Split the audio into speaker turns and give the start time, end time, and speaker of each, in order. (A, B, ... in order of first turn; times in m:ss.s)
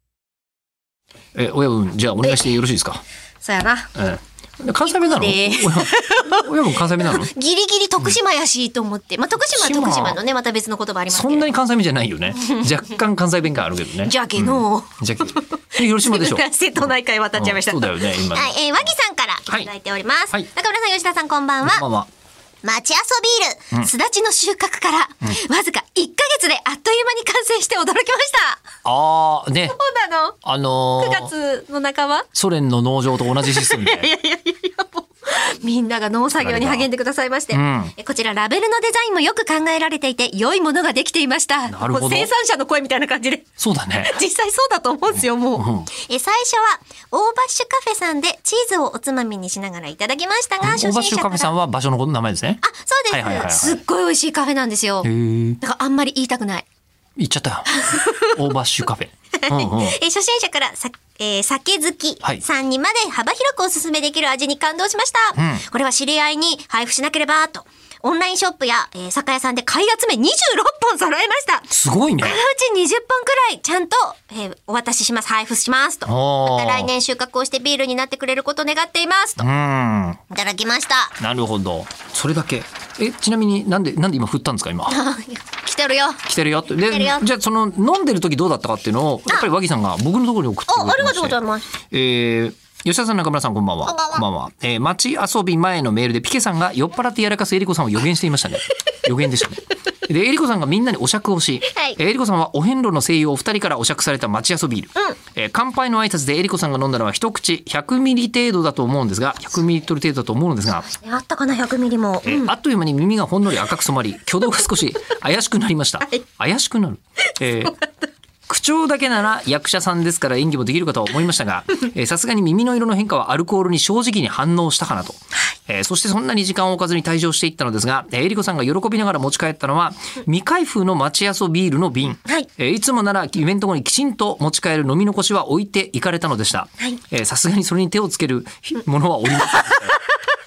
0:01.4-0:03.0 A
0:03.4-0:03.9 B
0:04.0-0:07.3 A
0:04.8-0:11.5 B
0:09.5-0:10.2 A
0:11.1-0:18.9 A
0:12.4-0:12.7 B
0:14.0-0:21.8 B
0:21.6-0:22.1 A
0:22.6-0:28.6 B
0:28.8-0:29.8 A
0:29.7-0:30.4 B
0:30.4-0:31.3 A
0:31.0-0:32.3 B
0:32.4-0:34.1 A
0:33.4-0:43.5 B
0:36.4-0:36.9 A
0:37.5-0:37.9 A
0:41.7-0:42.3 A
0:43.6-0:44.2 A
0:44.0-0:51.5 B
0:45.6-0:45.9 A
0:50.6-0:53.8 A
0:52.6-0:55.1 B
0:55.0-0:55.6 A
0:55.6-0:56.6 B
0:57.2-1:00.0 A
0:57.7-0:58.4 B
0:59.4-1:19.5 B
1:05.4-1:05.6 A
1:11.7-1:12.4 A
1:16.1-1:16.9 A
1:19.4-1:20.2 A
1:20.3-1:21.2 B
1:21.2-1:25.0 A
1:24.9-1:26.2 B
1:26.2-1:31.4 A
1:26.9-1:27.3 B
1:30.7-1:31.7 B
1:31.9-1:50.9 A
1:33.8-1:34.2 B
1:41.7-1:42.0 B
1:50.9-1:52.5 B
1:52.2-1:57.7 A
1:57.5-1:58.1 B
1:58.5-2:20.0 A